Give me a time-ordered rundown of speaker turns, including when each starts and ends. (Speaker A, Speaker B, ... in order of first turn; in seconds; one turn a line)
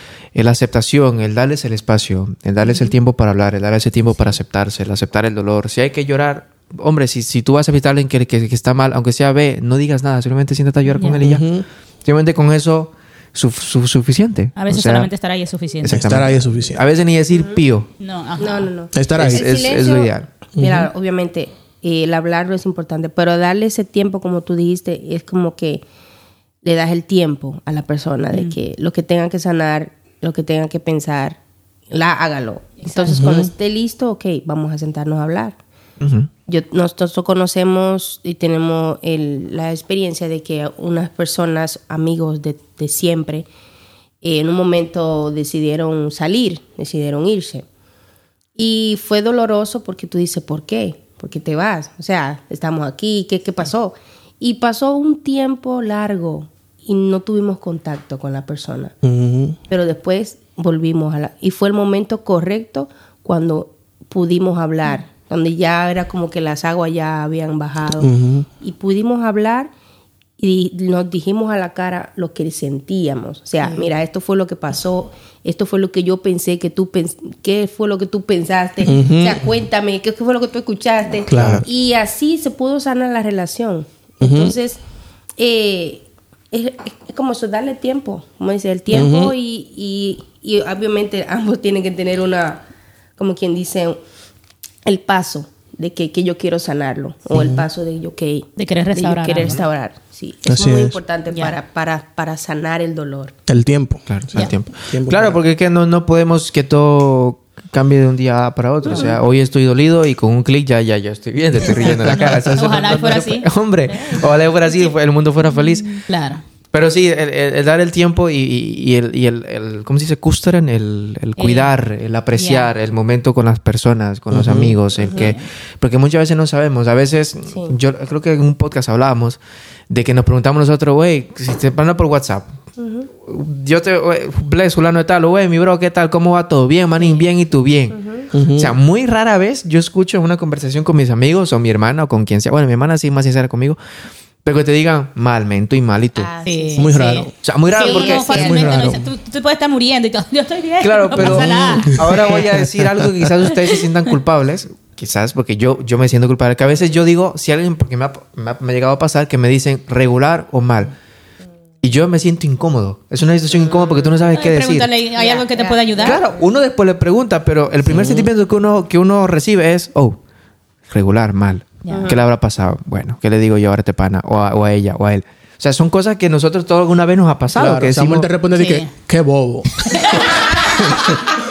Speaker A: 0.3-15.1
Speaker B: 10.9-11.3
Speaker C: 11.2-11.7
Speaker B: 14.6-16.1
Speaker A: 15.8-17.9
Speaker C: 15.9-16.8
Speaker B: 18.0-18.7
Speaker D: 18.4-25.8
Speaker C: 18.9-19.5
Speaker A: 19.1-20.3
Speaker C: 20.6-20.9
Speaker D: 26.6-35.6
Speaker B: 32.8-33.2
Speaker C: 33.1-33.5
Speaker A: 36.0-36.3
Speaker D: 36.5-43.5
Speaker D: 44.2-47.7
Speaker D: 48.6-58.9
Speaker C: 59.0-59.6
Speaker D: 59.7-68.1
Speaker C: 68.0-68.5
Speaker D: 68.6-69.7
Speaker D: 70.4-84.8
Speaker C: 78.8-79.5
Speaker C: 81.3-81.7
Speaker A: 81.3-81.7
Speaker C: 84.2-84.5
Speaker D: 85.4-92.7
Speaker C: 88.9-89.3
Speaker D: 93.2-94.0
Speaker D: 94.8-103.3
Speaker C: 97.3-97.6
Speaker B: 98.6-99.6
Speaker C: 100.5-101.0
Speaker C: 103.5-105.4
Speaker A: 104.1-116.1
Speaker D: 108.9-109.2
Speaker C: 111.7-112.9
Speaker B: 111.8-114.9
Speaker B: 116.0-116.4
Speaker A: 116.7-129.4
Speaker B: 121.4-121.7
Speaker B: 122.3-122.7
Speaker C: 124.3-124.8
Speaker D: 125.0-125.3
Speaker B: 125.1-125.4
Speaker D: 127.5-127.7
Speaker A: 129.9-132.5
Speaker D: 132.8-133.1
Speaker A: 133.2-138.0
Speaker D: 137.9-138.3
Speaker C: 138.3-138.8
Speaker A: 138.5-143.8
Speaker A: 144.4-146.3
Speaker D: 146.2-147.0
Speaker B: 146.4-152.4
Speaker C: 146.8-147.3
Speaker A: 147.4-148.3
Speaker D: 147.8-148.6
Speaker C: 148.3-149.1
Speaker A: 150.8-160.9
Speaker C: 151.2-153.1
Speaker A: 161.8-164.9
Speaker B: 164.4-166.2
Speaker D: 165.2-166.5
Speaker A: 166.0-170.2
Speaker D: 168.0-168.3
Speaker A: 170.9-178.3
Speaker B: 171.9-172.1
Speaker D: 171.9-172.2
Speaker C: 177.5-181.2
Speaker B: 178.6-178.9
Speaker B: 179.8-181.2